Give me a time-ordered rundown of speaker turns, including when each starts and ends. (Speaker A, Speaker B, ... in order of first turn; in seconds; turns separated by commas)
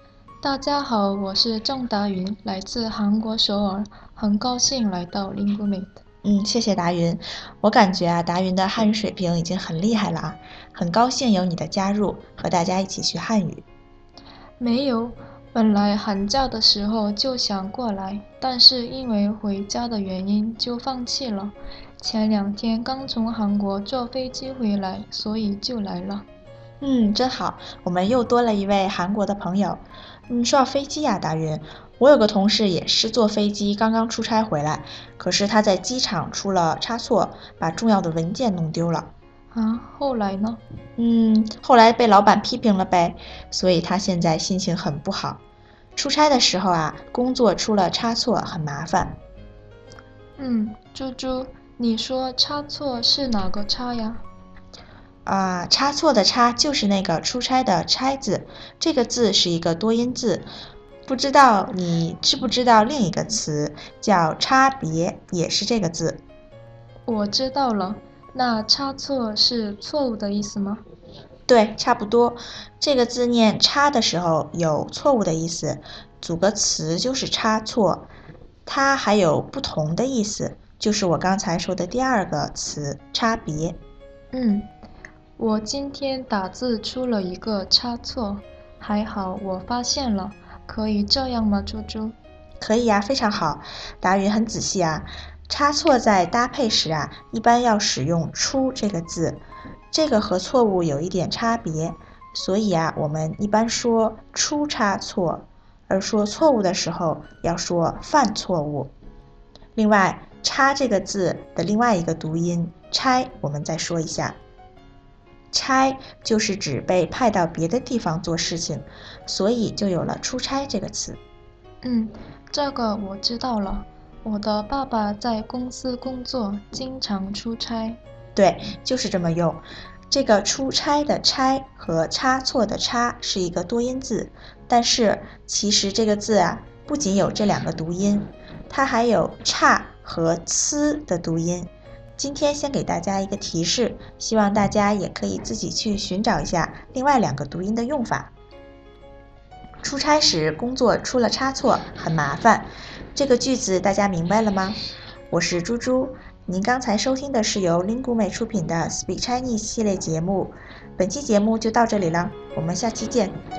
Speaker A: 0.4-6.0, Speaker B: 6.2-13.7, Speaker A: 14.6-26.3, Speaker B: 26.8-39.1, Speaker A: 39.5-40.6, Speaker B: 41.0-45.4, Speaker B: 46.0-49.2, Speaker A: 50.4-54.2, Speaker B: 55.3-60.5, Speaker B: 61.1-66.2, Speaker A: 67.1-70.8, Speaker B: 71.5-78.1, Speaker B: 78.7-83.8, Speaker A: 84.3-84.7, Speaker A: 85.4-92.2, Speaker B: 92.6-108.9, Speaker B: 109.8-114.4, Speaker B: 115.5-121.2, Speaker A: 121.8-128.0, Speaker B: 128.4-148.3, Speaker B: 149.8-154.8, Speaker B: 155.3-163.4